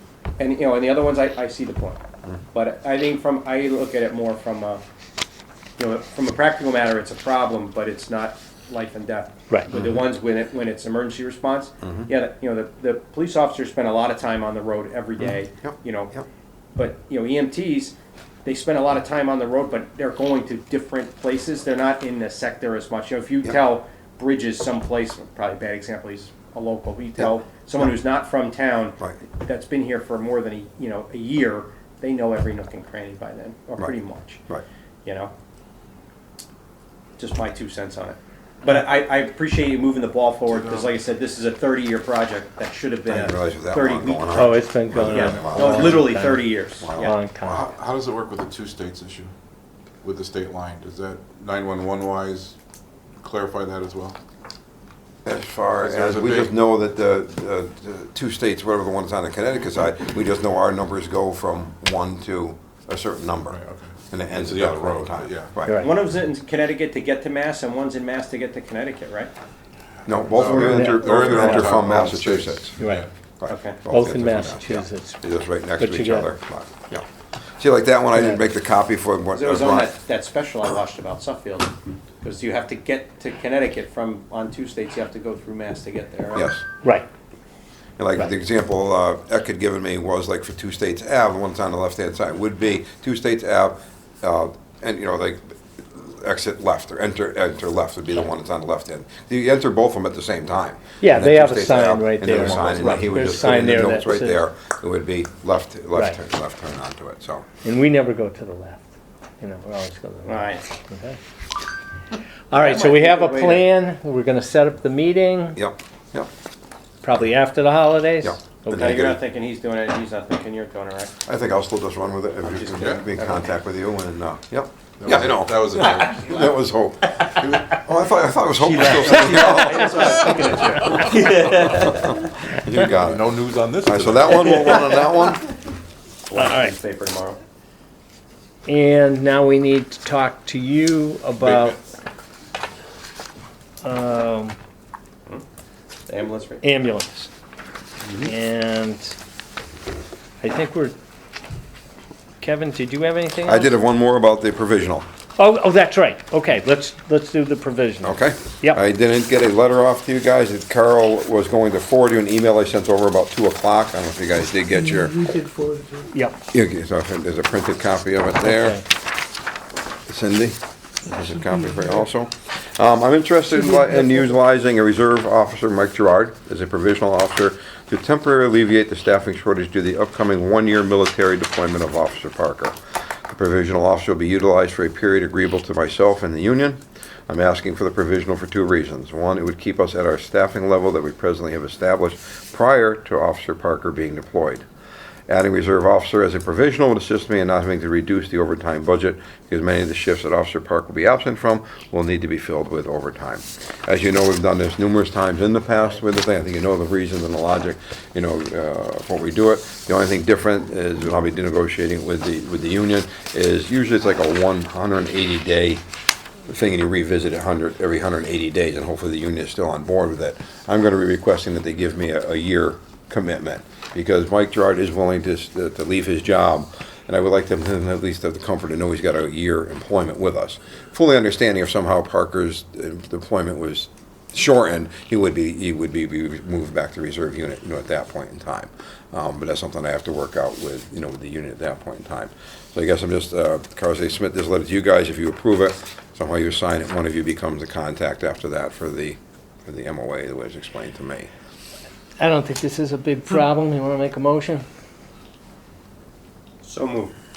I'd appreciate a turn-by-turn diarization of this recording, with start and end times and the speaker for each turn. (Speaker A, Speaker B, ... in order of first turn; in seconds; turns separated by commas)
Speaker A: 0.4-2.0, Speaker A: 2.5-4.8, Speaker A: 5.8-16.1, Speaker B: 9.7-10.0, Speaker B: 11.8-12.1, Speaker B: 15.6-16.2, Speaker A: 16.8-34.4, Speaker A: 35.0-35.3, Speaker A: 37.2-44.5, Speaker C: 40.5-40.9, Speaker B: 43.1-46.2, Speaker D: 44.4-47.6, Speaker A: 45.0-47.1, Speaker B: 46.8-47.2, Speaker C: 47.4-49.3, Speaker C: 50.0-52.6, Speaker C: 53.2-54.2, Speaker B: 55.2-63.6, Speaker C: 55.8-56.5, Speaker C: 63.5-65.5, Speaker B: 64.1-65.8, Speaker D: 65.6-65.9, Speaker A: 65.8-69.3, Speaker B: 70.1-72.8, Speaker C: 70.1-73.1, Speaker D: 70.5-71.8, Speaker D: 72.8-73.1, Speaker B: 73.4-77.0, Speaker A: 73.5-73.8, Speaker D: 73.9-75.2, Speaker D: 75.8-76.3, Speaker B: 77.6-79.9, Speaker D: 78.2-78.4, Speaker A: 79.3-86.5, Speaker B: 86.3-86.7, Speaker B: 88.0-107.5, Speaker D: 101.0-104.4, Speaker D: 107.6-111.2, Speaker A: 110.3-110.6, Speaker D: 112.5-115.6, Speaker A: 112.5-113.7, Speaker B: 115.6-116.3, Speaker D: 117.0-118.9, Speaker B: 118.2-119.2, Speaker A: 118.7-121.1, Speaker B: 121.2-131.2, Speaker A: 122.5-123.6, Speaker C: 122.8-123.0, Speaker C: 125.0-126.6, Speaker A: 125.8-126.1, Speaker A: 128.6-132.2, Speaker B: 131.7-135.4, Speaker C: 133.0-134.7, Speaker A: 136.3-137.4, Speaker D: 136.3-136.7, Speaker D: 138.7-141.8, Speaker D: 143.8-144.6, Speaker A: 146.1-146.6, Speaker D: 146.6-147.3, Speaker D: 148.2-149.2, Speaker D: 150.4-150.9, Speaker D: 152.4-153.7, Speaker B: 153.4-155.1, Speaker D: 155.4-158.8, Speaker B: 158.0-165.2, Speaker E: 164.7-166.1, Speaker B: 166.5-168.8, Speaker D: 168.5-168.8, Speaker B: 170.1-194.7, Speaker E: 171.2-171.8, Speaker E: 173.6-174.3, Speaker B: 195.3-215.8, Speaker B: 216.5-251.3, Speaker D: 252.2-254.7, Speaker A: 256.6-257.1